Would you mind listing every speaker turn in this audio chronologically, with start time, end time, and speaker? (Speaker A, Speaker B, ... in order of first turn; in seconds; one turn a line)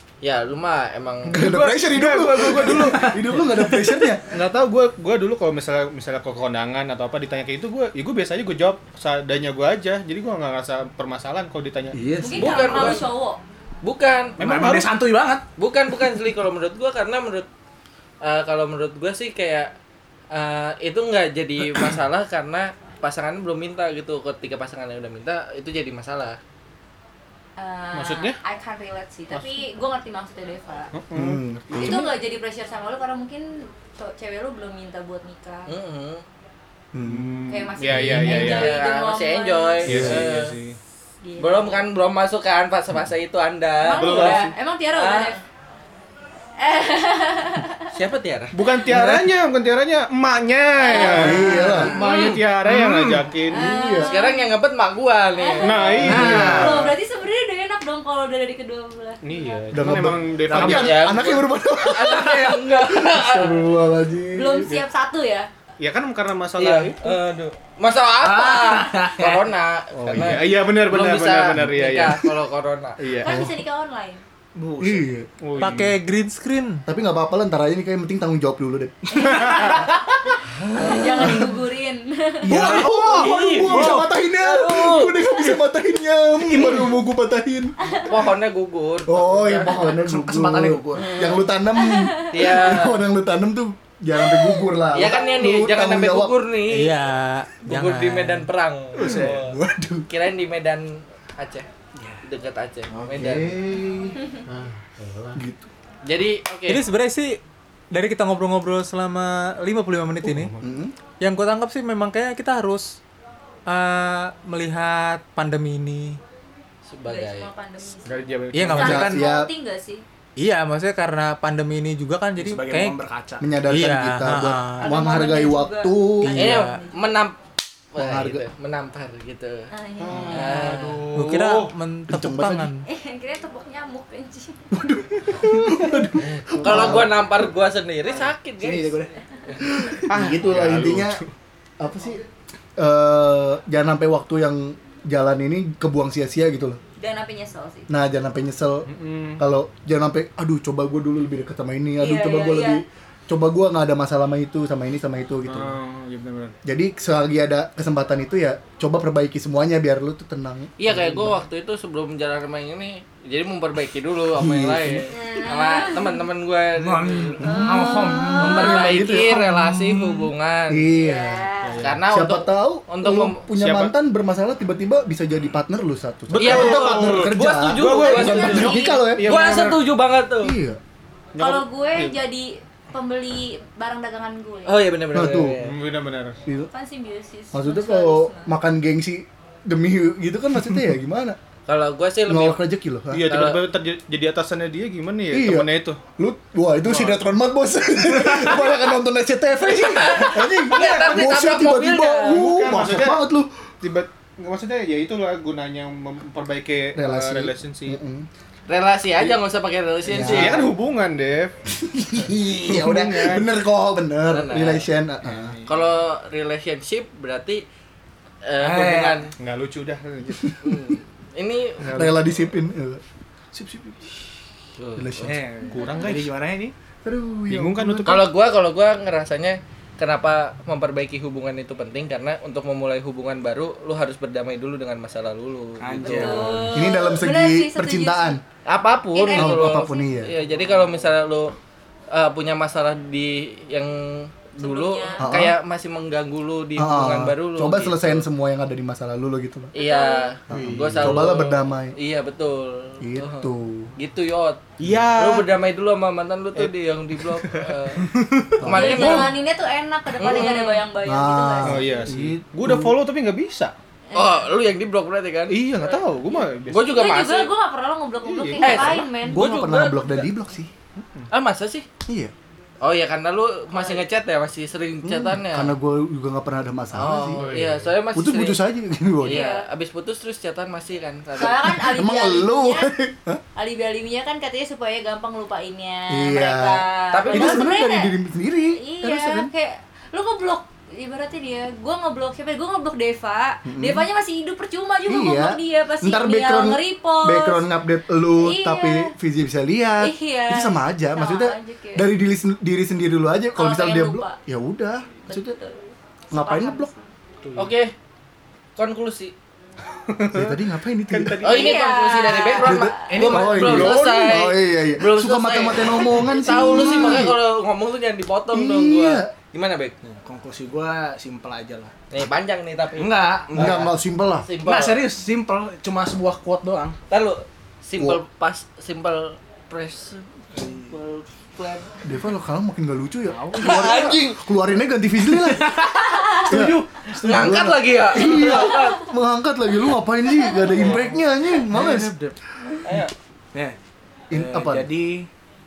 Speaker A: 0.2-1.4
Speaker B: 1.3-4.2
Speaker C: 1.3-3.1
Speaker D: 2.4-4.0
Speaker C: 4.3-12.0
Speaker B: 11.9-12.3
Speaker D: 12.0-13.0
Speaker E: 12.2-13.4
Speaker A: 12.4-13.1
Speaker A: 13.8-14.4
Speaker D: 14.4-15.4
Speaker C: 14.4-14.9
Speaker A: 15.6-17.5
Speaker A: 18.2-19.7
Speaker A: 20.3-26.4
Speaker E: 27.6-30.9
Speaker C: 27.9-28.4
Speaker A: 29.3-29.6
Speaker C: 30.9-31.4
Speaker B: 31.1-32.1
Speaker E: 31.7-35.7
Speaker A: 35.7-36.2
Speaker B: 36.9-38.4
Speaker C: 37.0-38.8
Speaker E: 37.5-40.1
Speaker A: 38.2-40.5
Speaker B: 39.9-40.2
Speaker C: 39.9-40.8
Speaker E: 41.2-41.9
Speaker A: 41.4-45.4
Speaker E: 43.8-45.4
Speaker C: 43.9-44.5
Speaker E: 46.6-47.9
Speaker A: 47.9-48.5
Speaker C: 48.5-53.8
Speaker B: 48.9-49.2
Speaker E: 50.8-52.1
Speaker A: 50.9-52.4
Speaker B: 51.0-52.0
Speaker D: 51.7-53.2
Speaker B: 53.5-54.1
Speaker E: 53.5-54.5
Speaker A: 53.9-56.2
Speaker E: 55.4-59.9
Speaker C: 55.6-57.0
Speaker D: 56.0-56.8
Speaker C: 59.2-61.1
Speaker B: 59.7-64.8
Speaker D: 60.5-60.9
Speaker A: 60.5-63.6
Speaker E: 64.3-65.5
Speaker C: 65.8-67.2
Speaker A: 66.6-73.0
Speaker D: 68.2-69.5
Speaker C: 70.0-72.3
Speaker B: 72.0-72.3
Speaker C: 73.0-73.5
Speaker E: 73.2-74.2
Speaker B: 73.2-73.6
Speaker D: 74.6-75.1
Speaker B: 74.8-75.3
Speaker C: 75.4-76.0
Speaker F: 75.6-76.8
Speaker B: 76.9-79.7
Speaker E: 79.1-79.9
Speaker E: 80.8-82.7
Speaker B: 80.8-81.6
Speaker A: 80.8-81.4
Speaker B: 82.4-87.8
Speaker A: 82.5-85.2
Speaker D: 82.5-84.0
Speaker D: 86.5-86.9
Speaker A: 88.0-90.0
Speaker B: 89.1-96.4
Speaker D: 89.9-91.1
Speaker A: 91.0-91.5
Speaker E: 91.7-92.5
Speaker A: 92.3-93.0
Speaker E: 94.3-94.6
Speaker A: 94.9-96.9
Speaker F: 96.7-98.5
Speaker A: 97.7-99.5
Speaker D: 99.0-99.4
Speaker B: 99.0-100.1
Speaker A: 100.1-101.7
Speaker D: 102.0-102.2
Speaker A: 102.2-103.6
Speaker B: 102.9-104.2
Speaker C: 104.5-105.4
Speaker B: 105.3-105.7
Speaker A: 106.1-106.8
Speaker F: 106.7-107.4
Speaker F: 107.9-110.5
Speaker C: 110.3-110.6
Speaker B: 110.6-111.0
Speaker F: 111.2-113.0
Speaker F: 113.7-116.2
Speaker A: 116.9-117.5
Speaker E: 117.1-120.0
Speaker C: 118.0-119.0
Speaker F: 118.5-119.2
Speaker B: 118.8-119.5
Speaker F: 120.4-123.0
Speaker D: 122.4-123.5
Speaker B: 123.4-126.5
Speaker F: 123.7-125.0
Speaker E: 124.8-127.0
Speaker F: 126.2-126.8
Speaker A: 126.4-127.4
Speaker A: 127.9-129.7
Speaker B: 128.0-128.4
Speaker E: 129.7-130.6
Speaker C: 130.0-131.7
Speaker A: 130.3-131.1
Speaker F: 131.1-132.8
Speaker B: 132.1-132.7
Speaker E: 132.9-134.6
Speaker B: 134.7-137.1
Speaker A: 136.2-139.0
Speaker D: 138.6-139.2
Speaker B: 139.8-141.2
Speaker C: 140.1-141.3
Speaker B: 141.8-142.2
Speaker B: 142.8-146.8
Speaker E: 147.0-147.9
Speaker B: 147.9-155.8
Speaker C: 148.9-149.4
Speaker E: 152.0-152.8
Speaker C: 155.4-156.6
Speaker B: 156.7-161.3
Speaker A: 160.8-167.5
Speaker B: 164.3-165.1
Speaker E: 165.1-166.2
Speaker D: 166.8-168.8
Speaker B: 167.4-169.5
Speaker E: 167.4-168.8
Speaker A: 168.4-170.9
Speaker D: 169.4-169.8
Speaker B: 170.7-171.5
Speaker E: 170.9-171.8
Speaker C: 171.6-172.0
Speaker A: 171.8-173.4
Speaker B: 172.1-179.3
Speaker C: 173.6-173.9
Speaker C: 176.3-179.9
Speaker A: 176.4-180.6
Speaker E: 178.0-179.1
Speaker B: 180.4-180.8
Speaker C: 181.3-182.2
Speaker E: 181.4-184.9
Speaker A: 184.7-185.8
Speaker B: 185.1-185.6
Speaker C: 185.6-186.4
Speaker E: 186.7-188.5
Speaker B: 187.5-191.4
Speaker A: 191.7-192.6
Speaker B: 192.3-193.3
Speaker C: 193.1-196.0
Speaker A: 193.2-193.7
Speaker B: 195.3-203.5
Speaker C: 196.9-197.2
Speaker A: 199.8-202.4
Speaker C: 202.3-203.3
Speaker C: 203.8-208.0
Speaker B: 207.0-208.3
Speaker A: 208.7-210.7
Speaker B: 210.1-210.7
Speaker C: 210.1-211.6
Speaker B: 211.8-215.6
Speaker C: 212.2-213.5
Speaker A: 214.3-214.9
Speaker C: 215.2-215.8
Speaker A: 215.7-217.6
Speaker A: 218.4-219.3
Speaker D: 218.6-219.3
Speaker C: 219.4-220.6
Speaker B: 220.4-220.7
Speaker A: 220.6-222.2
Speaker C: 221.8-222.2
Speaker B: 221.9-223.0
Speaker B: 223.6-223.9
Speaker A: 224.8-225.3
Speaker B: 225.0-225.4
Speaker D: 225.2-226.7
Speaker C: 225.7-226.3
Speaker B: 227.0-228.2
Speaker C: 227.5-228.3
Speaker A: 228.0-236.8
Speaker D: 235.8-236.8
Speaker E: 236.0-238.4
Speaker B: 236.7-238.4
Speaker A: 238.7-241.6
Speaker E: 239.1-239.9
Speaker B: 239.3-240.3
Speaker A: 242.1-248.2
Speaker E: 244.6-245.3
Speaker B: 245.2-245.6
Speaker B: 246.8-249.7
Speaker A: 249.7-258.0
Speaker E: 249.8-250.3
Speaker B: 250.5-252.0
Speaker C: 250.5-251.2
Speaker B: 253.0-253.9
Speaker D: 254.8-255.4
Speaker C: 254.8-255.1
Speaker B: 258.6-259.4
Speaker A: 258.6-259.4
Speaker E: 258.6-262.0
Speaker A: 260.2-260.8
Speaker B: 261.0-263.0
Speaker C: 261.6-263.7
Speaker E: 264.1-264.5
Speaker A: 264.1-265.7
Speaker C: 265.5-266.9
Speaker E: 265.8-269.5
Speaker A: 266.7-267.5
Speaker C: 268.2-269.0
Speaker A: 268.6-270.2
Speaker B: 269.2-270.7
Speaker C: 271.0-271.3
Speaker A: 271.3-271.9
Speaker B: 272.1-272.3
Speaker A: 272.8-275.8
Speaker E: 273.7-274.0
Speaker B: 275.0-277.4
Speaker A: 276.9-278.6
Speaker C: 277.3-277.9
Speaker B: 278.1-279.4
Speaker E: 279.2-279.7
Speaker A: 279.2-281.9
Speaker E: 281.4-282.9
Speaker B: 281.5-283.4
Speaker E: 283.6-288.1
Speaker B: 286.1-289.5
Speaker A: 287.1-287.7
Speaker E: 288.7-297.6
Speaker B: 293.7-294.1
Speaker B: 295.1-305.6
Speaker E: 298.3-299.1
Speaker E: 300.0-302.1
Speaker E: 303.6-304.4
Speaker E: 305.3-305.8
Speaker B: 306.3-306.9
Speaker E: 306.3-307.1
Speaker C: 307.4-307.7
Speaker A: 307.6-307.9
Speaker A: 308.8-309.4
Speaker C: 310.1-311.8
Speaker B: 310.3-311.4
Speaker A: 311.4-320.0
Speaker E: 311.4-313.1
Speaker B: 312.6-317.4
Speaker D: 312.9-314.3
Speaker E: 316.6-316.9
Speaker B: 318.5-319.3
Speaker D: 320.1-321.9
Speaker A: 322.1-323.9
Speaker D: 323.0-323.9
Speaker B: 323.6-324.5
Speaker A: 324.4-325.0
Speaker D: 324.6-327.0
Speaker A: 327.1-330.3
Speaker D: 330.5-331.0
Speaker A: 330.9-332.0
Speaker B: 332.0-335.8
Speaker D: 333.3-334.2
Speaker A: 333.6-334.4
Speaker D: 335.4-337.9
Speaker A: 336.3-339.1
Speaker B: 336.4-342.2
Speaker D: 340.6-342.4
Speaker A: 342.8-343.1
Speaker B: 344.3-344.9
Speaker D: 344.3-345.3